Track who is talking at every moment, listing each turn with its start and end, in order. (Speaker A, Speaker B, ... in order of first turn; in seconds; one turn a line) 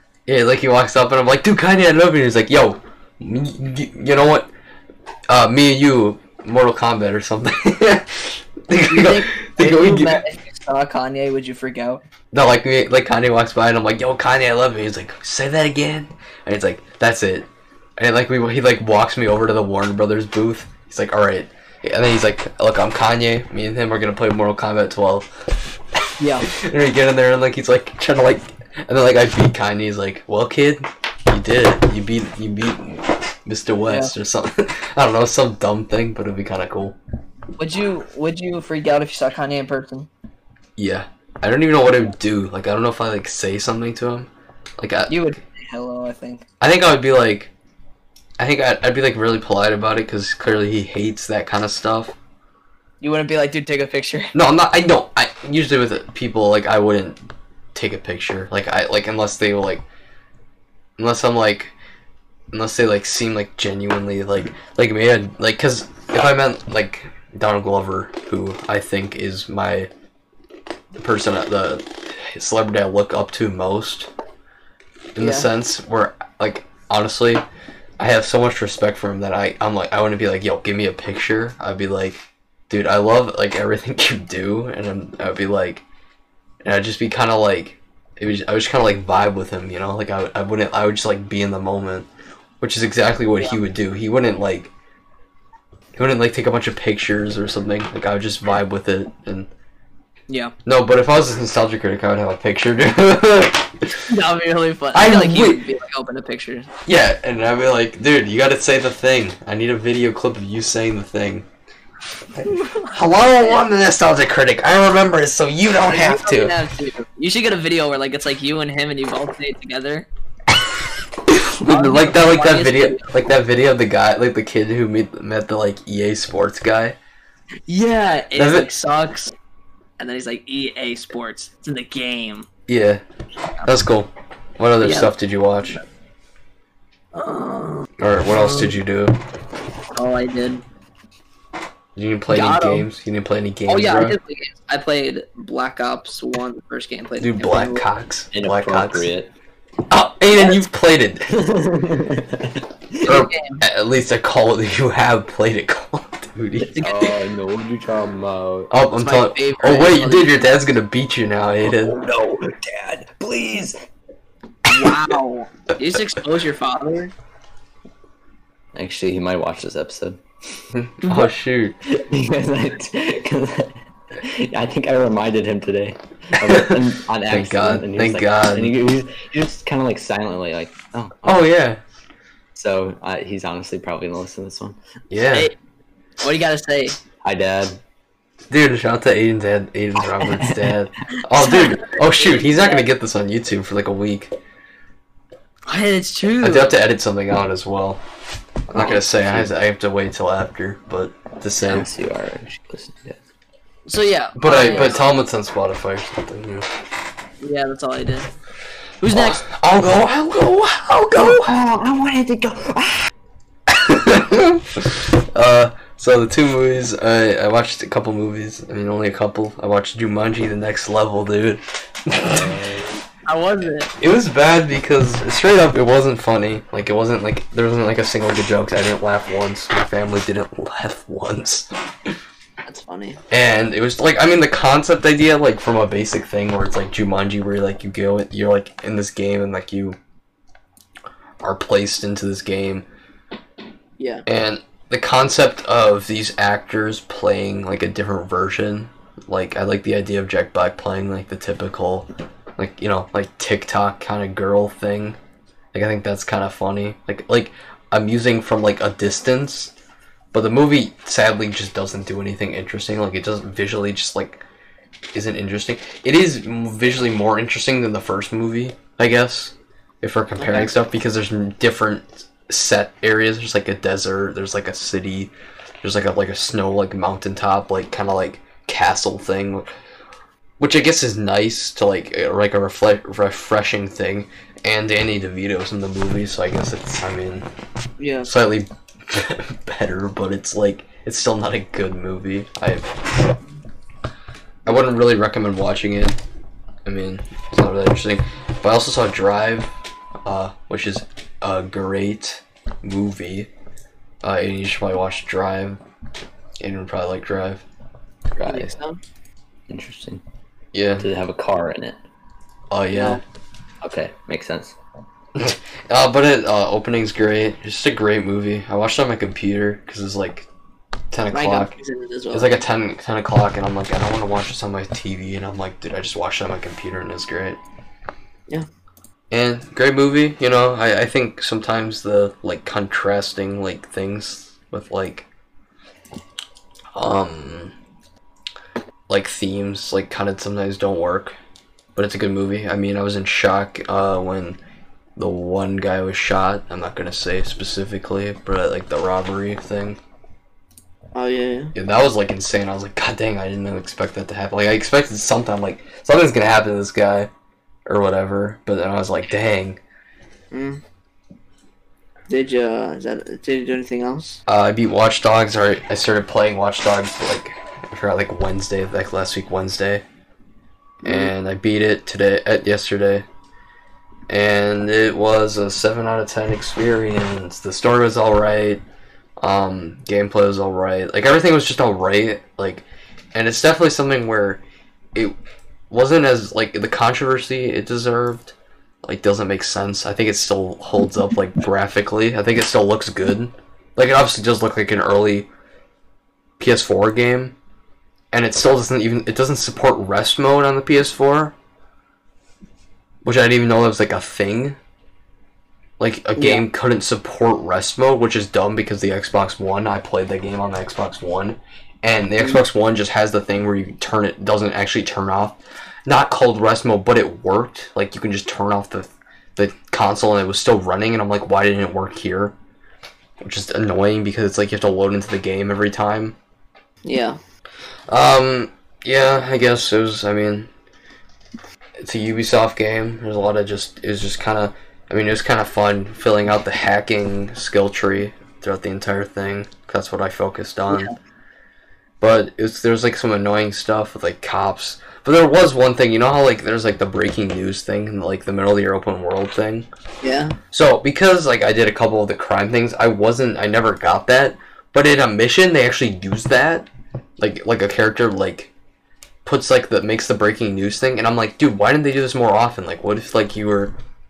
Speaker A: 0.3-4.5
Speaker A: 5.3-10.2
Speaker B: 8.9-12.0
Speaker A: 12.3-25.3
Speaker B: 26.2-26.5
Speaker A: 26.4-37.0
Speaker B: 33.9-34.1
Speaker B: 37.6-40.1
Speaker A: 40.8-45.2
Speaker B: 45.1-46.4
Speaker A: 46.6-47.5
Speaker A: 48.4-52.1
Speaker B: 53.0-54.3
Speaker A: 54.3-57.2
Speaker A: 57.7-59.8
Speaker A: 61.0-61.7
Speaker A: 62.5-69.9
Speaker A: 71.0-74.1
Speaker A: 75.1-77.4
Speaker B: 75.2-75.5
Speaker A: 78.0-85.8
Speaker A: 86.6-92.1
Speaker A: 92.6-94.7
Speaker A: 96.0-99.5
Speaker B: 100.3-100.5
Speaker A: 100.7-104.1
Speaker B: 104.1-106.7
Speaker A: 104.9-105.6
Speaker A: 106.8-111.5
Speaker A: 112.4-116.5
Speaker B: 112.4-113.6
Speaker B: 115.9-120.0
Speaker A: 121.3-127.0
Speaker B: 121.6-123.1
Speaker B: 127.7-129.3
Speaker A: 128.3-128.7
Speaker B: 130.0-132.5
Speaker A: 132.7-133.0
Speaker A: 133.6-135.8
Speaker B: 134.8-135.1
Speaker B: 137.1-138.8
Speaker A: 138.0-139.2
Speaker B: 139.9-140.6
Speaker A: 141.9-144.2
Speaker B: 142.3-142.9
Speaker B: 143.7-147.8
Speaker A: 147.2-149.1
Speaker C: 148.3-149.3
Speaker A: 149.9-151.5
Speaker C: 151.3-153.1
Speaker B: 153.0-153.6
Speaker A: 153.0-157.1
Speaker B: 156.7-157.1
Speaker C: 156.8-158.7
Speaker A: 158.7-162.0
Speaker B: 159.0-160.6
Speaker C: 161.6-163.8
Speaker B: 164.7-167.1
Speaker C: 168.7-170.2
Speaker A: 170.7-171.8
Speaker B: 171.0-171.3
Speaker C: 171.8-181.3
Speaker A: 176.4-178.8
Speaker A: 181.2-181.8
Speaker C: 182.5-184.8
Speaker A: 185.1-185.5
Speaker B: 185.2-185.5
Speaker B: 186.2-187.0
Speaker C: 187.2-187.8
Speaker A: 188.5-194.3
Speaker C: 190.0-190.7
Speaker B: 191.3-192.8
Speaker B: 195.7-196.8
Speaker A: 196.4-198.0
Speaker A: 198.7-201.9
Speaker C: 198.8-199.5
Speaker C: 201.6-203.2
Speaker B: 203.9-205.0
Speaker A: 204.4-206.7
Speaker B: 207.4-208.3
Speaker B: 209.0-209.4
Speaker A: 209.1-211.6
Speaker C: 211.1-213.1
Speaker A: 213.7-222.8
Speaker C: 222.2-223.0
Speaker B: 223.2-223.9
Speaker A: 224.0-231.7
Speaker B: 232.6-233.2
Speaker A: 233.3-239.9
Speaker A: 241.4-242.8
Speaker B: 244.0-244.2
Speaker A: 244.2-255.2
Speaker A: 255.7-259.7
Speaker A: 260.3-264.4
Speaker A: 265.1-275.3
Speaker B: 270.4-270.7
Speaker A: 275.8-279.7
Speaker A: 280.6-287.5
Speaker B: 288.0-288.3
Speaker A: 288.2-292.9
Speaker A: 294.6-296.2
Speaker A: 296.8-299.7
Speaker A: 300.2-303.5
Speaker A: 304.2-305.8
Speaker A: 306.6-307.6
Speaker A: 308.4-308.7
Speaker B: 308.4-309.0
Speaker C: 309.7-310.2
Speaker A: 310.7-311.1
Speaker C: 311.0-312.0
Speaker A: 312.7-313.2
Speaker B: 312.9-313.2
Speaker C: 313.8-314.8
Speaker A: 315.4-320.5
Speaker A: 321.1-321.8
Speaker B: 321.3-322.6
Speaker A: 322.3-327.6
Speaker A: 329.3-335.2
Speaker A: 336.9-337.7
Speaker A: 339.1-341.3
Speaker A: 341.9-344.6
Speaker A: 345.1-350.0
Speaker B: 351.1-351.7
Speaker A: 351.7-357.3
Speaker A: 357.9-359.8
Speaker B: 360.5-360.8
Speaker B: 362.3-364.4
Speaker A: 364.5-370.0
Speaker A: 371.0-373.2
Speaker B: 371.0-371.3
Speaker A: 374.3-378.8
Speaker A: 379.4-384.6
Speaker A: 385.9-395.5
Speaker A: 396.6-397.5
Speaker A: 398.3-401.5
Speaker A: 403.2-404.8
Speaker A: 406.0-422.5
Speaker B: 406.4-406.6
Speaker A: 423.4-426.3
Speaker B: 427.0-427.4
Speaker A: 428.1-430.7
Speaker A: 432.0-441.1
Speaker A: 442.2-449.9
Speaker B: 450.2-450.6
Speaker A: 450.7-456.9
Speaker A: 457.4-458.7
Speaker A: 459.4-463.9